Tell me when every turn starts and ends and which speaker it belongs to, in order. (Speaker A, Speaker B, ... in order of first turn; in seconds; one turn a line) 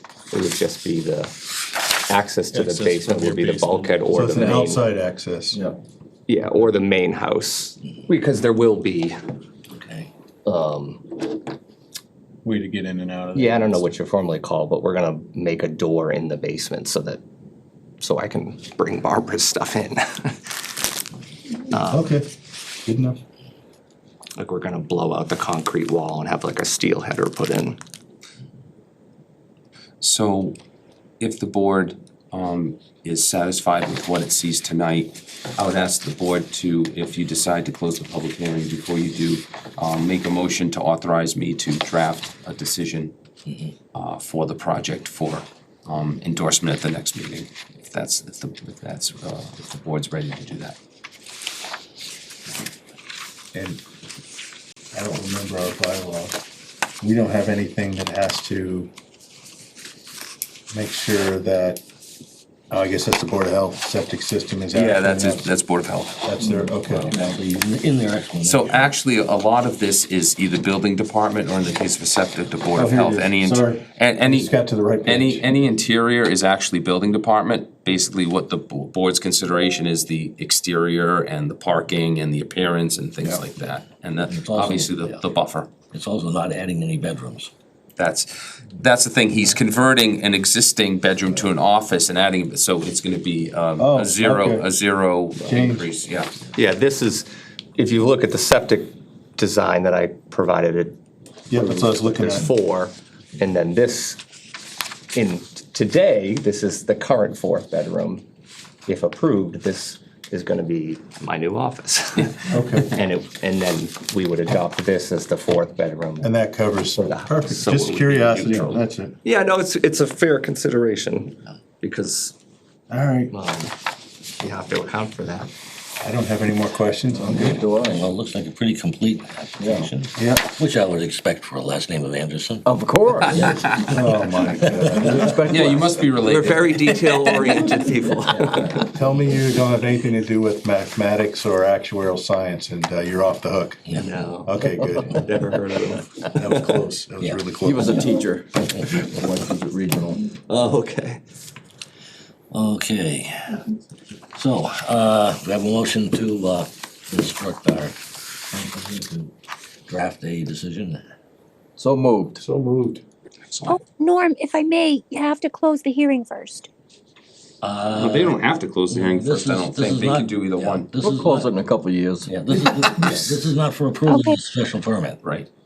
Speaker A: 0.3-1.3
Speaker A: 2.0-4.8
Speaker B: 2.5-4.3
Speaker C: 4.1-5.7
Speaker D: 4.4-4.7
Speaker A: 6.3-9.2
Speaker E: 9.7-10.1
Speaker A: 10.4-11.2
Speaker B: 12.4-13.9
Speaker A: 13.3-17.2
Speaker A: 18.0-20.5
Speaker A: 21.7-22.1
Speaker C: 21.9-22.3
Speaker C: 22.9-23.2
Speaker A: 24.4-27.8
Speaker F: 30.0-30.6
Speaker F: 31.2-43.1
Speaker F: 43.9-50.8
Speaker C: 53.5-53.8
Speaker C: 54.9-56.4
Speaker C: 57.0-58.9
Speaker C: 60.7-61.8
Speaker C: 62.7-65.5
Speaker F: 64.7-66.2
Speaker C: 66.2-67.1
Speaker E: 66.8-68.9
Speaker D: 67.1-67.4
Speaker F: 68.4-74.5
Speaker C: 72.7-75.4
Speaker F: 75.0-85.7
Speaker E: 84.3-85.2
Speaker E: 85.9-87.5
Speaker F: 88.0-96.4
Speaker C: 93.8-94.7
Speaker C: 95.4-95.9
Speaker A: 96.5-101.0
Speaker C: 101.5-102.5
Speaker A: 101.5-104.2
Speaker A: 105.1-108.2
Speaker A: 108.9-116.3
Speaker C: 112.5-112.9
Speaker C: 116.2-119.2
Speaker A: 117.0-122.3
Speaker C: 122.9-123.3
Speaker A: 123.3-123.7
Speaker A: 124.4-125.5
Speaker C: 126.0-127.6
Speaker D: 127.2-128.1
Speaker E: 127.3-132.7
Speaker D: 129.6-129.9
Speaker C: 130.2-130.5
Speaker D: 132.7-133.8
Speaker F: 133.5-133.9
Speaker C: 133.8-135.5
Speaker D: 134.8-136.0
Speaker F: 135.5-137.7
Speaker A: 136.2-138.8
Speaker D: 138.4-138.8
Speaker C: 138.8-143.8
Speaker E: 143.9-144.2
Speaker A: 144.0-144.5
Speaker C: 144.4-145.2
Speaker A: 145.1-146.8
Speaker C: 146.3-148.2
Speaker E: 147.2-147.5
Speaker D: 147.6-150.3
Speaker A: 150.4-151.2
Speaker E: 152.5-153.6
Speaker E: 154.4-157.9
Speaker D: 158.7-159.0
Speaker E: 159.9-161.0
Speaker D: 161.8-162.4
Speaker C: 162.4-163.0
Speaker F: 163.5-163.8
Speaker G: 163.7-166.7
Speaker E: 167.6-168.4
Speaker F: 167.9-170.9
Speaker E: 168.9-171.5
Speaker D: 171.0-172.8
Speaker E: 172.3-175.2
Speaker G: 174.1-174.4
Speaker F: 175.2-175.5